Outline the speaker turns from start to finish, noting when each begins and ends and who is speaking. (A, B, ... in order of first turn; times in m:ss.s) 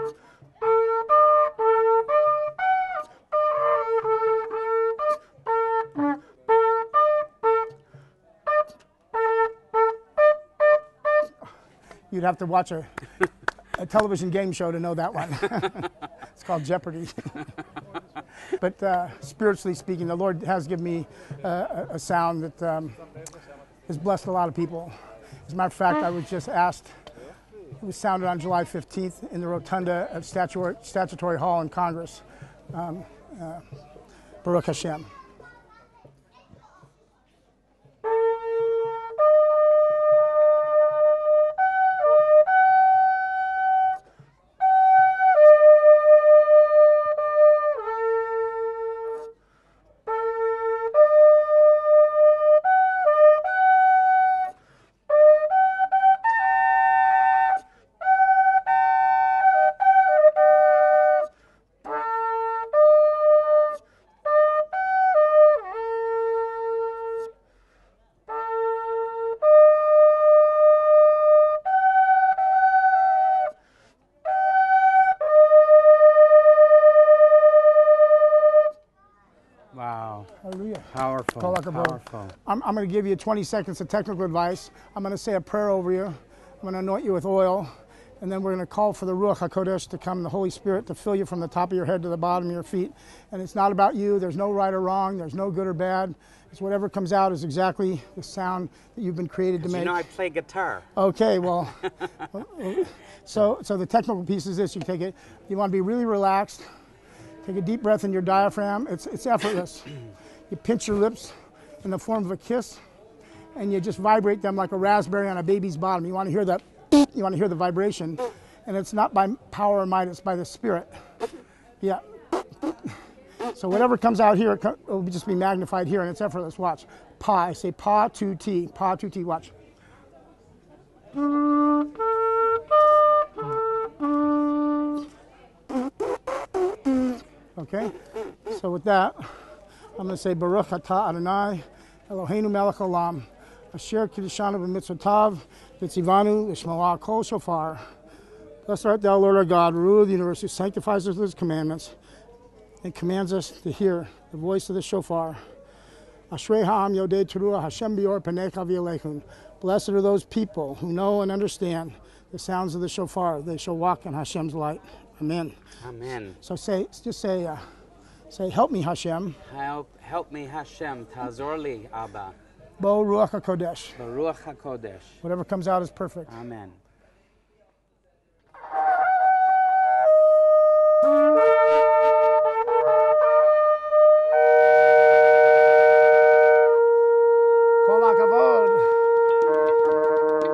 0:12.1-0:13.0 A
0:13.8-0:17.4 A
0:18.6-0:23.0 A
0:23.9-0:26.9 A
0:27.8-0:33.6 A
0:34.4-0:35.1 A
1:19.7-1:20.3 B
1:20.4-1:40.0 A
1:20.9-1:22.4 B
1:39.6-1:40.9 B
1:41.0-1:46.7 A
1:47.4-1:49.9 A
1:50.5-1:52.8 A
1:53.6-2:00.9 A
2:02.6-2:03.0 A
2:03.5-2:09.5 A
2:17.6-2:18.0 A
2:18.5-2:27.8 A
2:28.7-2:32.0 A
2:32.8-2:35.4 A
2:36.3-2:45.6 A
2:45.8-2:46.4 B
2:46.4-2:47.6 A
2:48.3-2:49.4 A
2:49.4-2:52.4 B
2:52.8-2:54.0 A
2:54.0-2:55.2 B
2:55.2-2:56.3 A
2:56.3-2:56.8 B
3:07.8-3:08.9 A